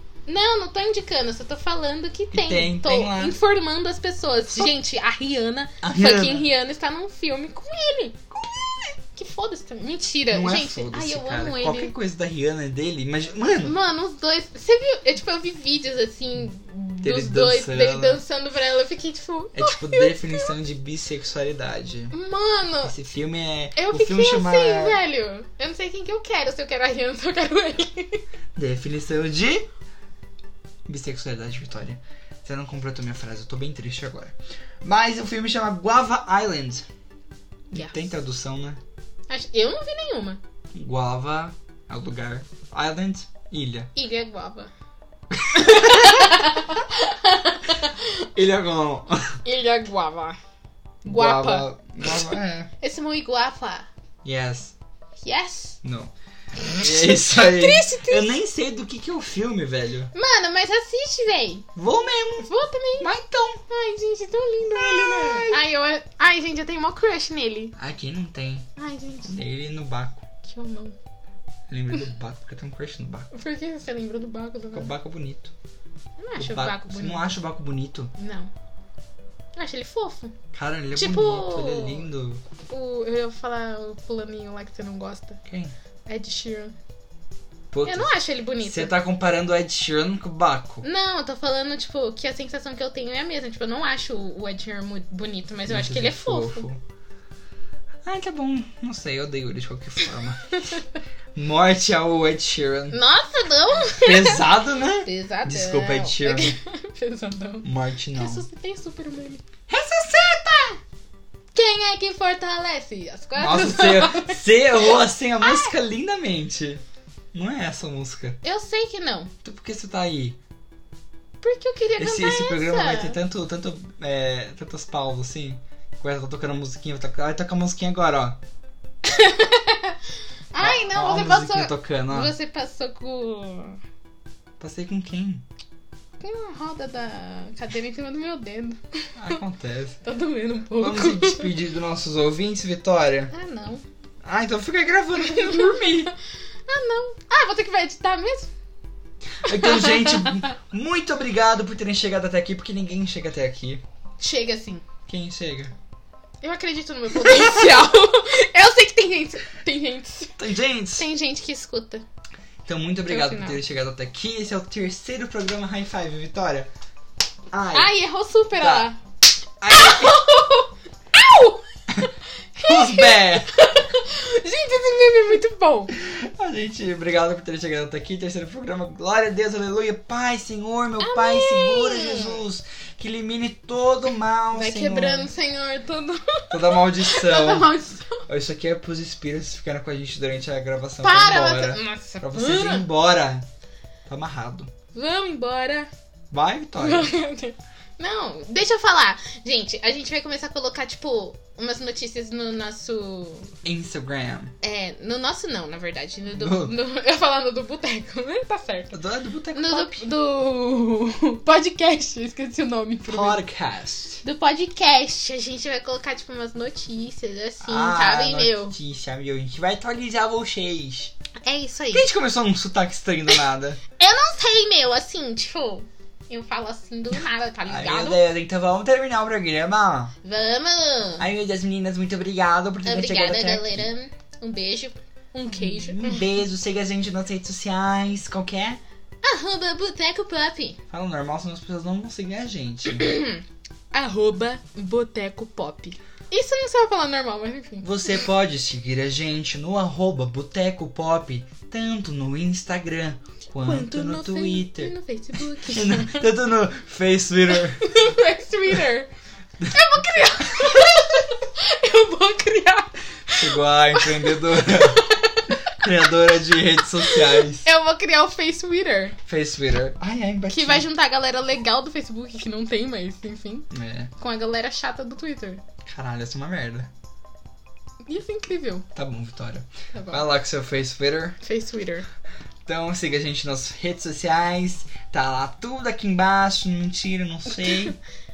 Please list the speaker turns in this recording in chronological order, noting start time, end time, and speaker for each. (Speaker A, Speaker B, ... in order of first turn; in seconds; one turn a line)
Speaker A: 0.3-8.2
Speaker B: 2.3-3.4
Speaker B: 5.8-6.5
Speaker B: 8.3-8.9
Speaker A: 9.1-11.9
Speaker B: 10.3-13.8
Speaker A: 13.6-20.5
Speaker B: 17.0-18.2
Speaker B: 19.5-22.1
Speaker A: 22.1-22.9
Speaker B: 22.8-25.0
Speaker A: 23.7-28.2
Speaker B: 28.5-29.7
Speaker B: 30.9-36.9
Speaker B: 37.7-38.8
Speaker A: 37.7-38.0
Speaker A: 39.3-40.4
Speaker B: 40.7-43.9
Speaker A: 43.9-44.7
Speaker B: 45.3-46.4
Speaker A: 45.5-48.3
Speaker B: 48.3-49.4
Speaker A: 49.4-50.4
Speaker B: 51.0-52.7
Speaker A: 51.1-53.9
Speaker B: 54.2-54.7
Speaker A: 55.2-55.8
Speaker B: 55.8-56.1
Speaker B: 56.7-60.1
Speaker A: 56.7-58.3
Speaker A: 60.1-61.7
Speaker B: 61.7-63.6
Speaker A: 62.4-63.1
Speaker A: 63.7-67.8
Speaker B: 64.7-65.6
Speaker B: 67.8-68.7
Speaker A: 68.8-69.4
Speaker B: 69.2-70.2
Speaker A: 70.4-71.0
Speaker B: 71.7-73.3
Speaker A: 73.3-74.9
Speaker B: 74.7-75.5
Speaker A: 76.2-77.3
Speaker B: 76.4-78.1
Speaker A: 78.1-78.5
Speaker A: 79.5-80.3
Speaker B: 80.5-82.4
Speaker A: 80.9-82.1
Speaker A: 82.7-85.4
Speaker B: 85.5-85.7
Speaker A: 86.1-86.7
Speaker B: 87.7-90.8
Speaker A: 87.8-88.9
Speaker A: 90.8-96.7
Speaker B: 95.7-96.8
Speaker B: 98.0-100.8
Speaker A: 100.5-100.8
Speaker B: 101.3-103.0
Speaker A: 102.9-104.5
Speaker B: 103.8-106.6
Speaker A: 105.0-109.4
Speaker B: 107.6-108.4
Speaker B: 109.7-110.8
Speaker A: 111.5-115.7
Speaker B: 113.4-118.4
Speaker A: 118.4-119.3
Speaker B: 119.4-120.4
Speaker A: 121.4-123.2
Speaker B: 122.0-128.4
Speaker A: 129.0-130.0
Speaker A: 130.5-133.8
Speaker B: 130.6-132.3
Speaker B: 134.6-135.4
Speaker A: 136.2-139.4
Speaker B: 139.2-140.0
Speaker A: 140.0-141.5
Speaker B: 140.8-143.3
Speaker A: 143.3-143.8
Speaker B: 144.2-146.1
Speaker A: 145.2-146.1
Speaker A: 146.7-148.5
Speaker B: 149.4-153.8
Speaker A: 149.4-150.5
Speaker A: 154.2-154.8
Speaker B: 155.1-155.7
Speaker A: 156.4-160.4
Speaker B: 157.1-157.9
Speaker B: 160.4-161.1
Speaker A: 160.9-162.0
Speaker B: 162.6-166.7
Speaker A: 163.1-163.6
Speaker B: 167.5-167.9
Speaker A: 167.7-169.0
Speaker B: 168.6-168.9
Speaker B: 169.6-170.2
Speaker A: 169.7-175.9
Speaker B: 172.6-173.6
Speaker B: 175.9-185.3
Speaker A: 181.0-182.4
Speaker A: 184.5-188.2
Speaker B: 186.5-187.7
Speaker B: 188.3-193.4
Speaker A: 191.0-192.8
Speaker B: 194.1-194.7
Speaker A: 194.9-195.9
Speaker B: 196.3-197.1
Speaker A: 196.8-203.5
Speaker B: 203.6-204.5
Speaker A: 204.6-208.9
Speaker B: 206.3-206.7
Speaker B: 208.9-210.0
Speaker A: 209.5-213.4
Speaker B: 213.1-214.2
Speaker A: 214.2-218.8
Speaker B: 217.6-221.1
Speaker A: 221.4-222.1
Speaker B: 221.9-223.8
Speaker A: 224.0-228.2
Speaker B: 227.1-230.1
Speaker A: 230.2-231.2
Speaker B: 231.2-233.9
Speaker A: 232.8-236.3
Speaker B: 235.5-238.8
Speaker A: 239.2-240.8
Speaker B: 240.9-243.2
Speaker A: 242.8-248.2
Speaker B: 247.8-257.9
Speaker A: 253.6-256.3
Speaker A: 257.5-259.1
Speaker A: 259.6-269.2
Speaker B: 260.4-260.9
Speaker B: 263.4-265.1
Speaker B: 265.7-267.7
Speaker B: 269.3-270.9
Speaker A: 270.5-275.6
Speaker B: 273.7-274.1
Speaker B: 275.8-276.9
Speaker A: 278.1-278.9
Speaker B: 278.9-281.4
Speaker A: 279.9-280.2
Speaker A: 281.4-282.1
Speaker B: 282.6-287.9
Speaker A: 287.5-287.9